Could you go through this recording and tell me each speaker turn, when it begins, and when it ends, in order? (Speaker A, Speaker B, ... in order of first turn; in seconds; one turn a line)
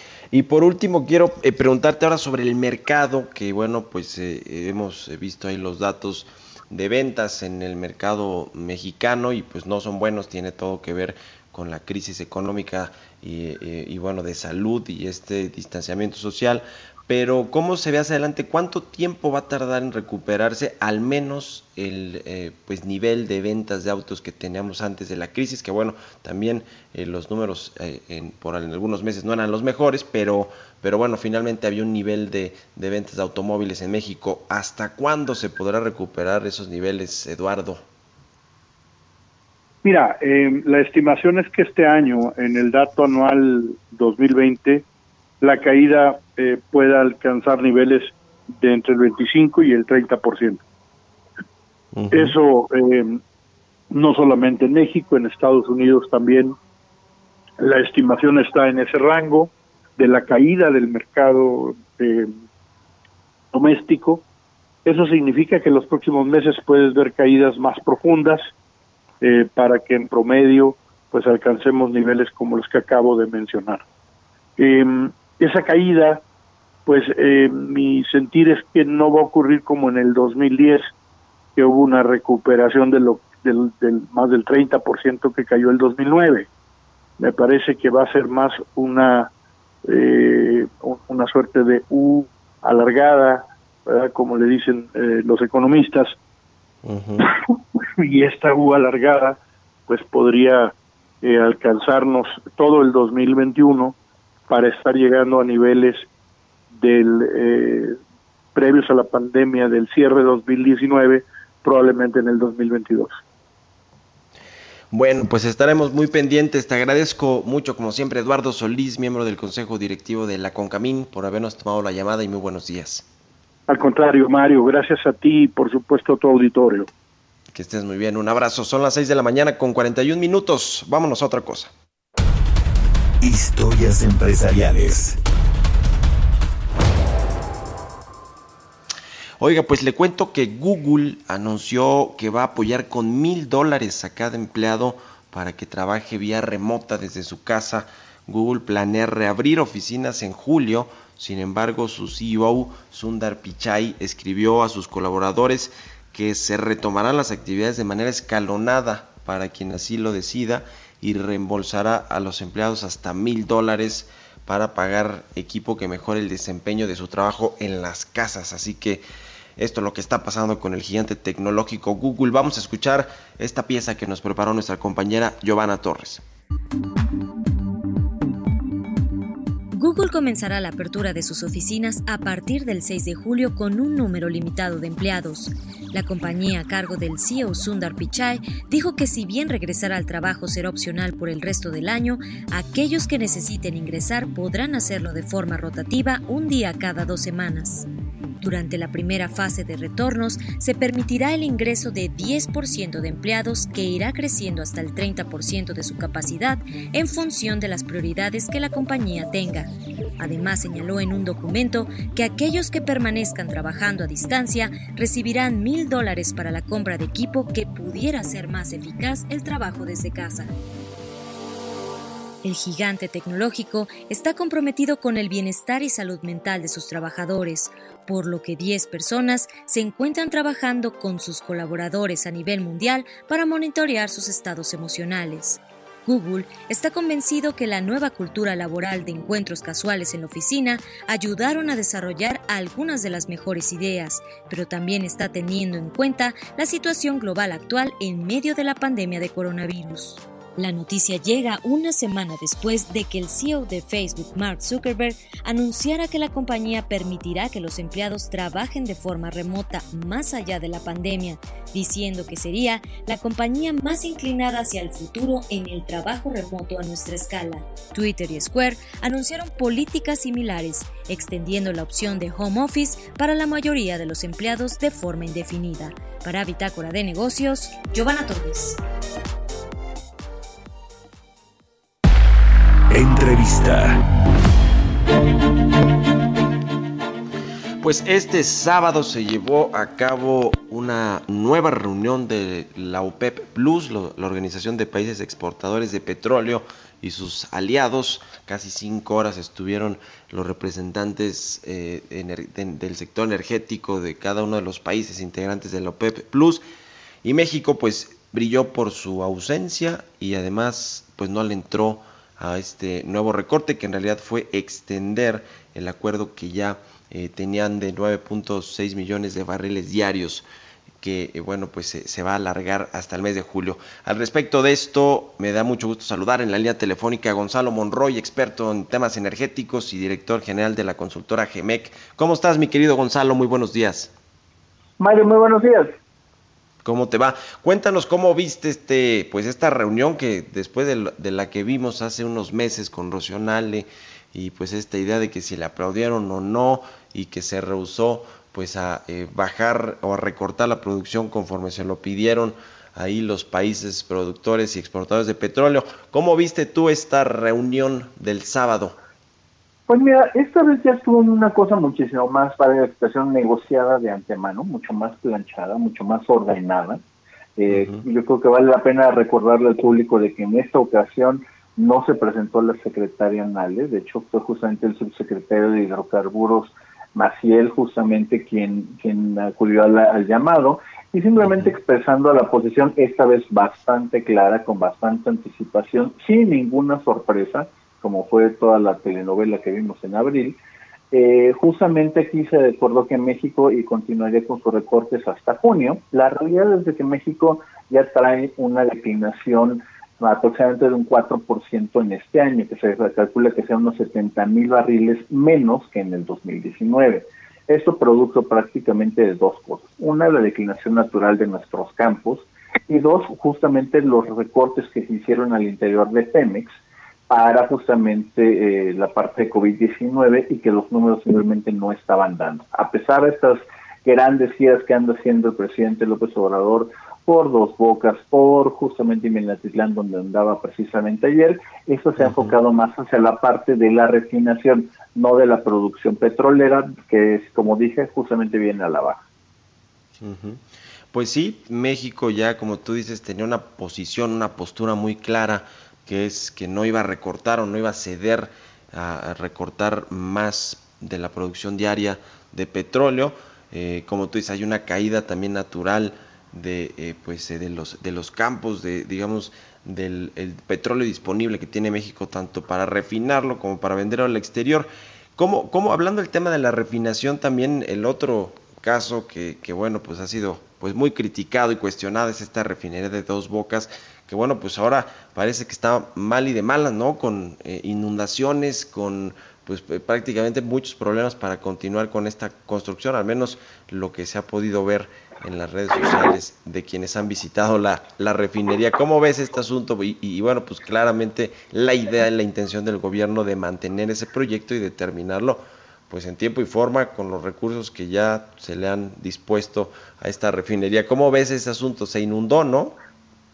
Speaker A: 0.3-37.8
Speaker B: 39.8-44.9
Speaker B: 45.4-50.6
Speaker A: 51.9-52.3
Speaker B: 52.1-53.2
Speaker B: 53.9-56.6
Speaker B: 57.6-62.3
Speaker B: 63.5-64.2
Speaker B: 64.8-68.5
Speaker B: 69.2-73.8
Speaker B: 74.6-76.2
Speaker B: 76.8-80.9
Speaker B: 81.5-86.5
Speaker B: 87.2-89.3
Speaker B: 89.8-96.2
Speaker A: 96.8-97.3
Speaker B: 97.2-104.0
Speaker B: 104.5-106.1
Speaker B: 106.7-108.0
Speaker B: 108.5-113.2
Speaker A: 114.9-123.0
Speaker B: 123.7-126.9
Speaker A: 127.5-131.7
Speaker C: 133.2-135.2
Speaker A: 139.4-169.0
Speaker A: 169.6-176.2
Speaker D: 179.7-197.8
Speaker D: 198.4-220.5
Speaker D: 222.4-278.8
Speaker C: 282.9-284.0
Speaker A: 287.8-306.6
Speaker A: 307.2-320.4
Speaker A: 321.0-334.1
Speaker E: 335.0-335.9
Speaker A: 336.8-359.0
Speaker E: 359.9-367.0
Speaker E: 367.6-390.6
Speaker E: 391.1-416.7
Speaker E: 417.3-439.2
Speaker A: 432.2-432.5
Speaker A: 440.2-502.9